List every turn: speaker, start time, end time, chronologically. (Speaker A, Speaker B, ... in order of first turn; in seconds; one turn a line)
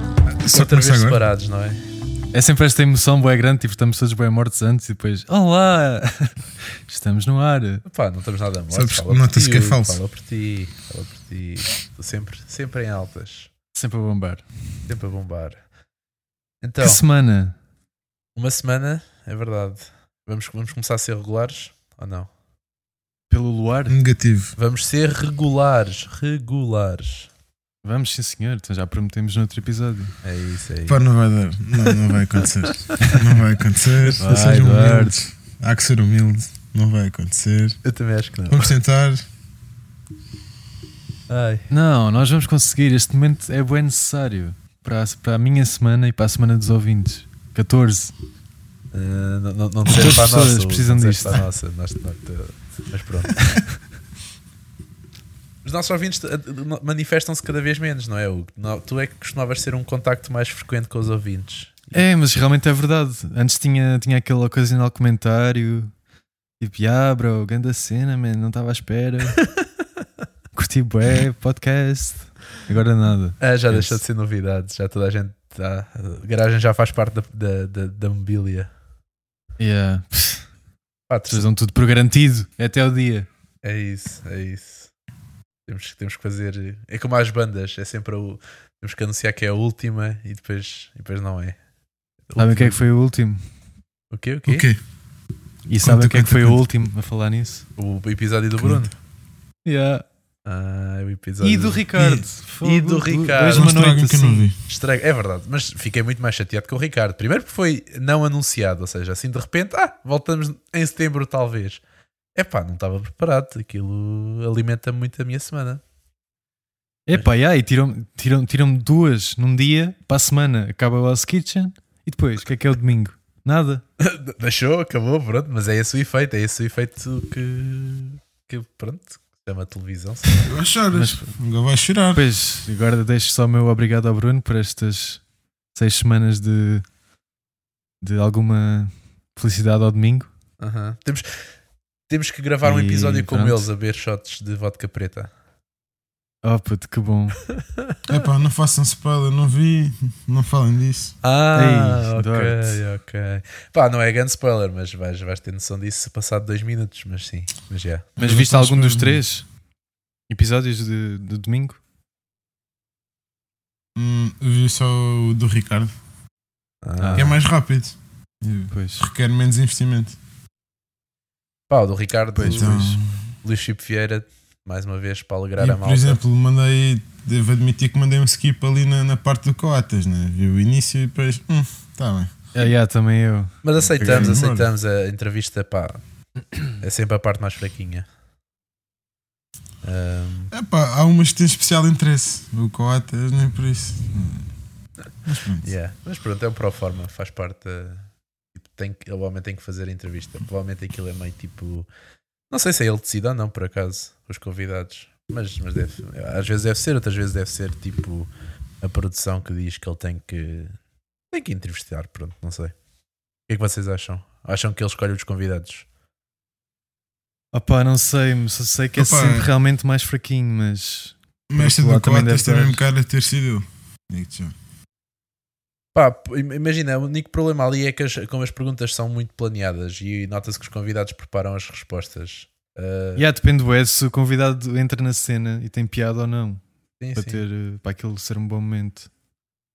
Speaker A: 0.3-1.2
Speaker B: 0.5-1.8
Speaker C: 2.3-7.8
Speaker B: 7.8-13.5
Speaker A: 8.7-10.0
Speaker C: 13.7-14.4
Speaker B: 14.9-15.6
Speaker B: 16.6-17.0
Speaker C: 16.8-17.5
Speaker B: 18.4-22.3
Speaker C: 23.3-24.0
Speaker A: 23.9-24.5
Speaker B: 24.6-27.3
Speaker C: 27.8-30.1
Speaker B: 30.2-31.0
Speaker A: 30.9-37.8
Speaker B: 32.4-32.7
Speaker C: 33.0-33.2
Speaker C: 34.2-35.2
Speaker B: 37.8-38.7
Speaker A: 38.5-39.2
Speaker B: 41.3-41.7
Speaker C: 41.7-48.1
Speaker B: 48.9-53.4
Speaker C: 49.9-51.4
Speaker C: 53.4-53.7
Speaker B: 55.6-62.0
Speaker C: 61.9-65.9
Speaker C: 66.6-69.4
Speaker C: 70.5-74.0
Speaker B: 73.4-78.7
Speaker C: 79.6-80.5
Speaker B: 81.1-81.5
Speaker C: 81.3-83.3
Speaker B: 83.6-84.9
Speaker B: 85.7-91.6
Speaker B: 92.3-92.8
Speaker C: 92.4-93.4
Speaker B: 94.1-94.7
Speaker A: 94.5-94.8
Speaker C: 95.7-97.7
Speaker A: 95.8-96.6
Speaker B: 97.8-98.9
Speaker C: 99.6-100.0
Speaker B: 100.5-101.8
Speaker C: 101.4-104.5
Speaker A: 101.9-102.2
Speaker B: 102.6-103.7
Speaker A: 103.5-104.6
Speaker B: 104.7-111.8
Speaker B: 112.3-115.8
Speaker C: 117.1-123.8
Speaker B: 124.0-130.4
Speaker A: 130.4-132.3
Speaker C: 130.9-131.3
Speaker C: 132.1-135.2
Speaker C: 135.7-136.8
Speaker C: 138.0-140.3
Speaker B: 140.6-141.5
Speaker B: 142.1-145.3
Speaker C: 142.6-143.7
Speaker C: 146.4-147.4
Speaker A: 148.1-151.2
Speaker B: 151.2-158.1
Speaker C: 151.5-152.8
Speaker A: 158.2-159.2
Speaker C: 158.2-159.4
Speaker C: 160.3-161.8
Speaker A: 163.9-165.9
Speaker B: 166.8-167.4
Speaker C: 167.0-167.3
Speaker A: 167.2-170.2
Speaker C: 168.7-169.0
Speaker B: 171.7-176.2
Speaker C: 172.3-172.8
Speaker A: 172.4-173.2
Speaker A: 175.6-182.3
Speaker C: 182.5-184.4
Speaker B: 183.6-186.0
Speaker A: 184.0-184.7
Speaker B: 186.8-188.1
Speaker B: 189.8-190.5
Speaker A: 190.5-194.5
Speaker A: 195.2-195.7
Speaker B: 195.6-201.9
Speaker B: 202.5-208.3
Speaker B: 208.8-210.7
Speaker B: 211.3-212.7
Speaker B: 213.5-215.8
Speaker C: 217.5-222.8
Speaker A: 218.9-219.5
Speaker A: 221.5-224.5
Speaker B: 225.9-233.2
Speaker C: 233.2-236.6
Speaker B: 237.0-237.4
Speaker C: 237.1-239.1